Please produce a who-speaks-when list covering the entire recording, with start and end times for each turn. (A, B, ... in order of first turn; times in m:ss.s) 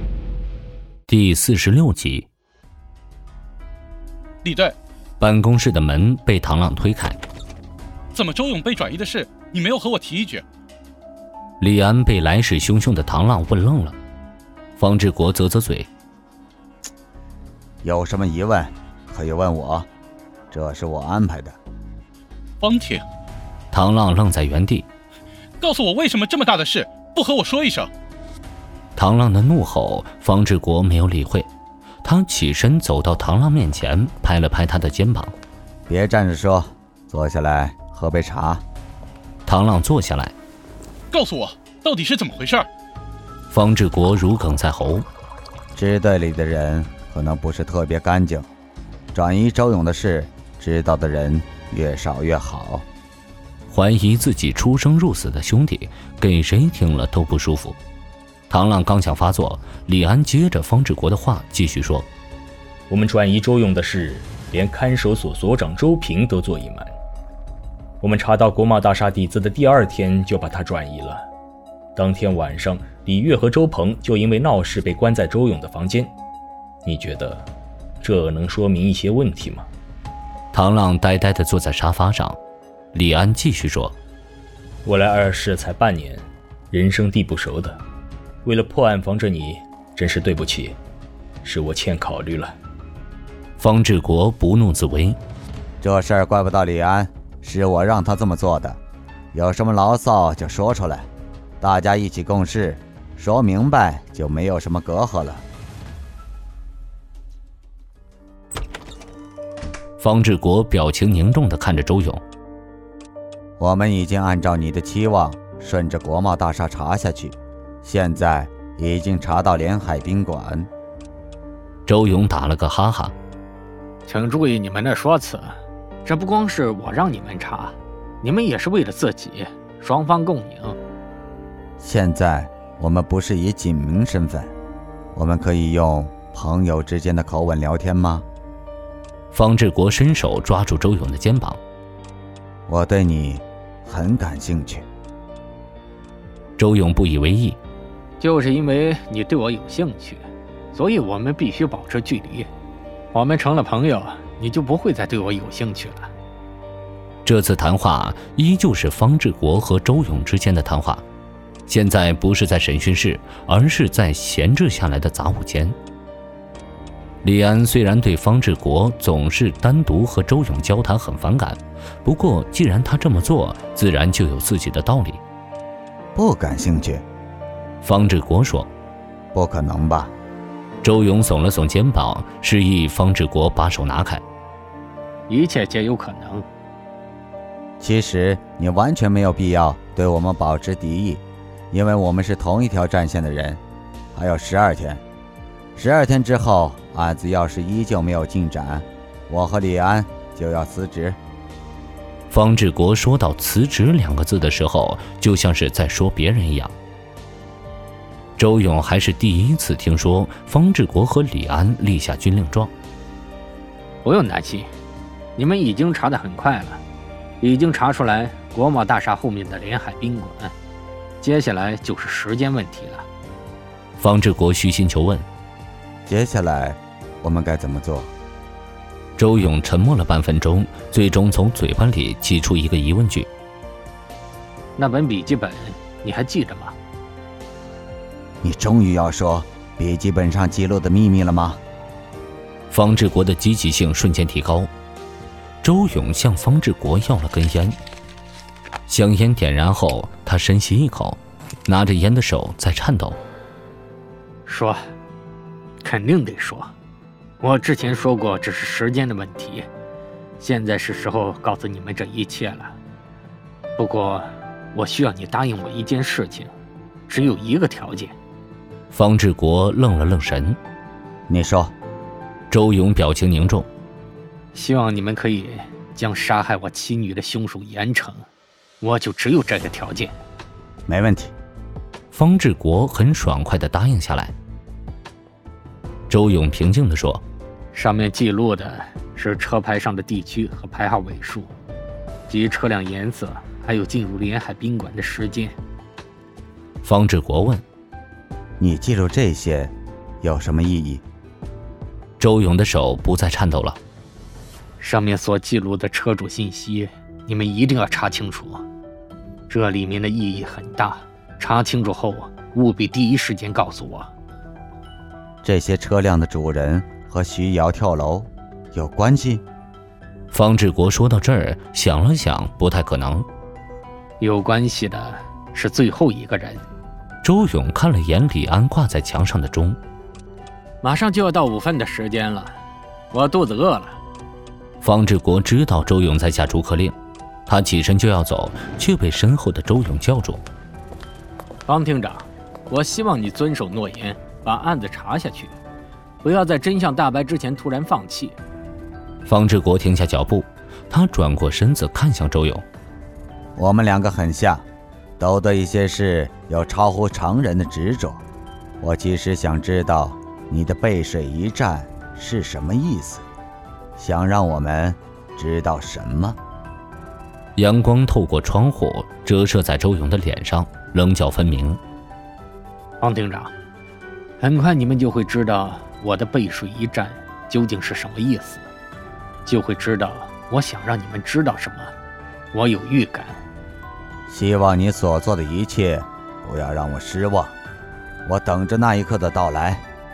0:01.1-0:02.3 A
0:04.4-0:04.8 B
0:05.2-0:07.2 A
0:08.1-0:10.4 B
0:11.6-0:14.0 A
0:14.8-0:15.9 A
0:17.8-0:19.9 C
0:20.5-0:21.6 C
0:22.6-0:23.1 B
0:23.7-0:24.9 A
0:25.6-0:27.9 B
0:29.0-0:31.5 A
0:32.0-0:35.3 A
0:35.9-0:38.6 C
0:39.5-0:40.4 A
0:41.1-0:42.7 B
0:43.5-0:45.1 A
0:45.8-0:48.5 C
0:49.1-0:52.9 C
0:53.7-0:57.8 A
0:58.5-1:02.1 A
1:02.9-1:06.9 D
1:08.0-1:11.2 D
1:12.0-1:16.1 D
1:16.8-1:17.5 D
1:18.0-1:19.7 D
1:20.5-1:22.4 A
1:22.9-1:24.0 A
1:24.8-1:27.8 D
1:28.4-1:30.8 D
1:31.4-1:32.6 D
1:33.6-1:35.2 A
1:35.8-1:38.8 C
1:39.3-1:41.1 C
1:41.6-1:45.4 C
1:50.0-1:52.2 A
1:53.6-2:00.7 C
2:01.9-2:03.2 A
2:04.1-2:10.8 E
2:11.8-2:14.5 C
2:15.1-2:18.3 C
2:19.3-2:21.6 A
2:22.7-2:24.9 C
2:26.6-2:27.6 A
2:28.2-2:30.2 E
2:30.7-2:32.5 E
2:33.1-2:36.1 E
2:37.2-2:41.0 A
2:41.7-2:45.8 A
2:47.2-2:55.2 A
2:56.2-2:57.0 C
2:57.8-2:58.7 A
2:59.3-3:00.1 C
3:00.8-3:04.2 A
3:05.3-3:06.5 E
3:07.8-3:13.6 C
3:14.1-3:15.0 C
3:15.8-3:21.2 C
3:22.3-3:26.8 A
3:28.4-3:32.7 A
3:34.0-3:34.7 E
3:35.4-3:36.8 E
3:37.4-3:40.5 E
3:41.2-3:43.1 E
3:44.0-3:45.3 A
3:46.1-3:48.1 C
3:49.2-3:53.3 A
3:54.8-3:56.8 E
3:58.4-4:01.6 C
4:02.7-4:04.7 A
4:05.6-4:07.8 A
4:08.9-4:13.2 A
4:14.5-4:14.8 E
4:15.8-4:16.7 E
4:17.4-4:19.7 E
4:20.4-4:22.8 E
4:23.8-4:26.5 E
4:27.1-4:28.2 E
4:28.9-4:30.6 A
4:31.3-4:31.7 C
4:32.5-4:33.7 A
4:34.5-4:38.3 E
4:38.8-4:40.2 E
4:40.9-4:41.3 C
4:42.1-4:44.3 A
4:46.1-4:47.2 A
4:47.7-4:51.5 E
4:52.3-4:55.6 E
4:56.8-4:57.6 A
4:58.6-5:01.0 C
5:02.2-5:03.8 A
5:04.8-5:08.6 E
5:09.5-5:14.1 E
5:15.4-5:19.4 C
5:20.3-5:23.3 A
5:24.2-5:26.6 E
5:27.2-5:29.8 A
5:30.8-5:32.6 E
5:33.1-5:34.0 E
5:34.8-5:37.0 A
5:37.5-5:40.4 A
5:41.7-5:45.6 E
5:46.2-5:48.4 E
5:49.2-5:52.6 A
5:53.6-5:54.6 C
5:55.2-5:58.2 C
5:58.8-6:03.3 C
6:04.0-6:06.4 C
6:07.6-6:11.8 A
6:13.0-6:13.5 E
6:14.4-6:18.7 E
6:19.4-6:21.9 E
6:22.5-6:23.4 E
6:24.3-6:27.6 C
6:28.3-6:29.8 C